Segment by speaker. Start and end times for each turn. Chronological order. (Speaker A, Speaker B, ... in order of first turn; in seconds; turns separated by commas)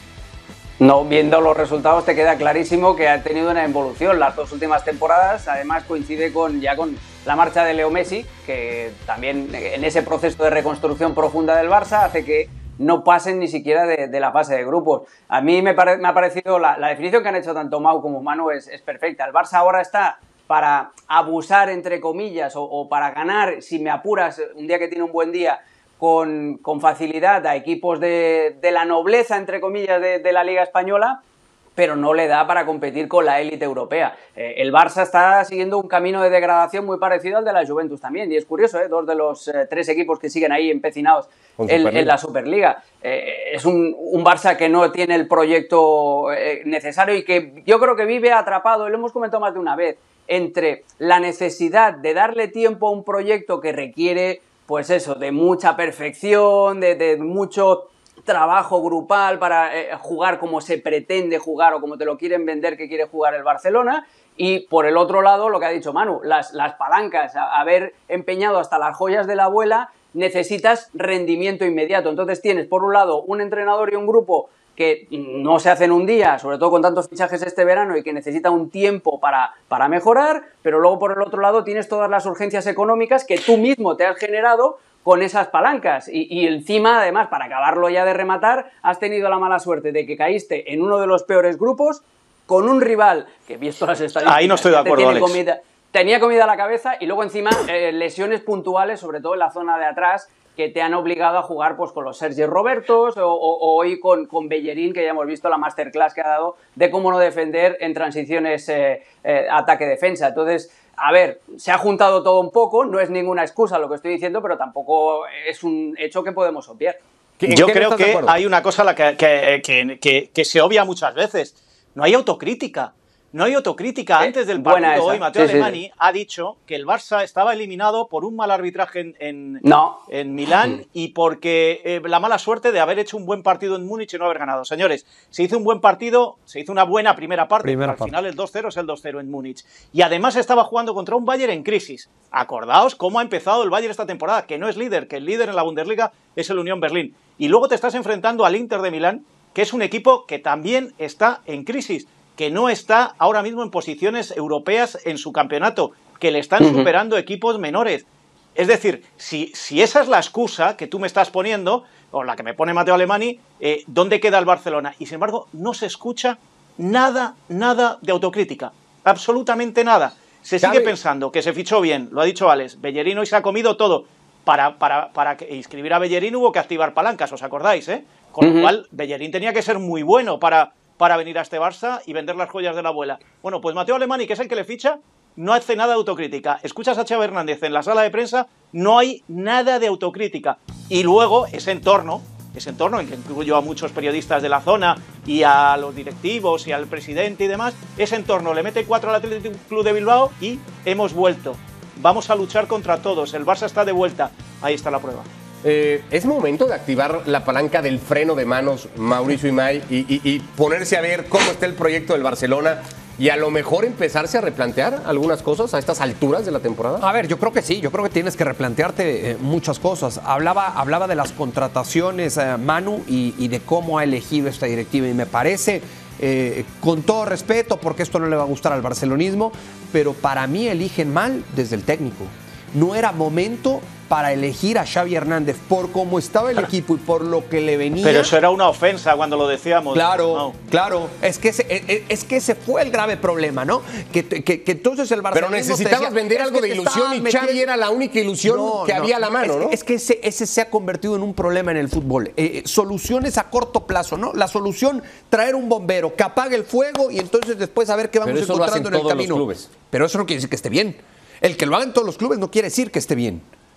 Speaker A: 0.8-31.2, Speaker A: 31.8-117.0, Speaker B: 41.6-42.1, Speaker C: 94.2-95.4, Speaker B: 117.4-118.4, Speaker C: 117.5-158.1, Speaker A: 124.2-125.8, Speaker A: 129.6-130.0, Speaker D: 137.6-138.1, Speaker A: 156.6-156.9, Speaker C: 158.6-205.3, Speaker B: 170.6-170.9, Speaker A: 178.4-178.7, Speaker B: 205.6-217.1, Speaker D: 217.0-238.3, Speaker C: 238.0-240.5, Speaker D: 239.9-247.7, Speaker B: 245.3-249.8, Speaker D: 248.4-263.5, Speaker B: 258.2-259.7